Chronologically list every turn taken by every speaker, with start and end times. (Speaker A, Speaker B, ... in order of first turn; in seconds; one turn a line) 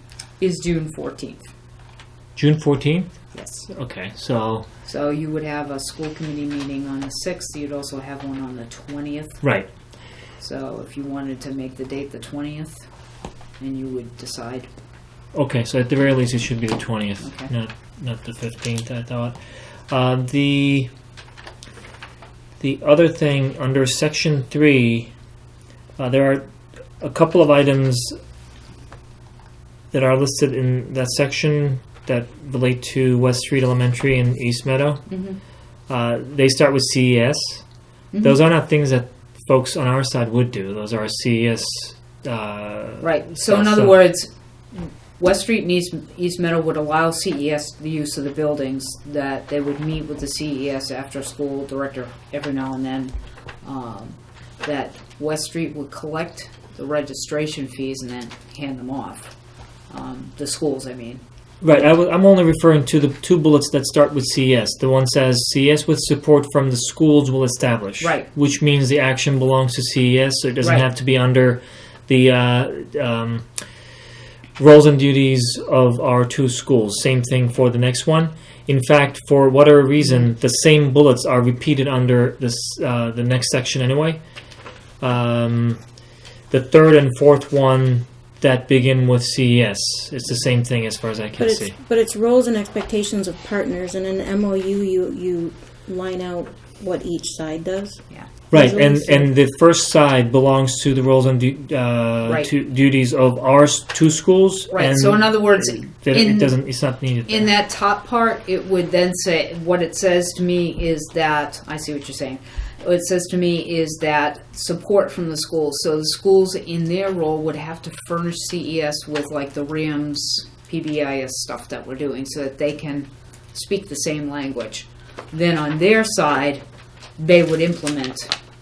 Speaker A: 0.4-1.5
Speaker B: 2.4-4.7
Speaker A: 3.3-3.7
Speaker A: 4.8-9.4
Speaker B: 9.4-9.7
Speaker A: 10.4-12.8
Speaker A: 13.6-14.7
Speaker B: 15.3-19.4
Speaker A: 17.2-17.5
Speaker B: 19.9-20.9
Speaker B: 22.6-25.1
Speaker B: 26.0-26.4
Speaker B: 27.0-28.1
Speaker B: 29.9-35.1
Speaker A: 35.1-35.4
Speaker B: 35.9-37.6
Speaker A: 38.1-38.4
Speaker B: 38.2-44.0
Speaker A: 43.0-59.3
Speaker A: 59.9-61.2
Speaker B: 61.6-73.5
Speaker A: 68.0-68.3
Speaker B: 74.6-84.2
Speaker B: 85.0-85.8
Speaker B: 86.5-91.7
Speaker C: 91.4-99.3
Speaker B: 98.5-107.5
Speaker A: 104.7-106.6
Speaker A: 107.3-126.6
Speaker A: 127.2-128.3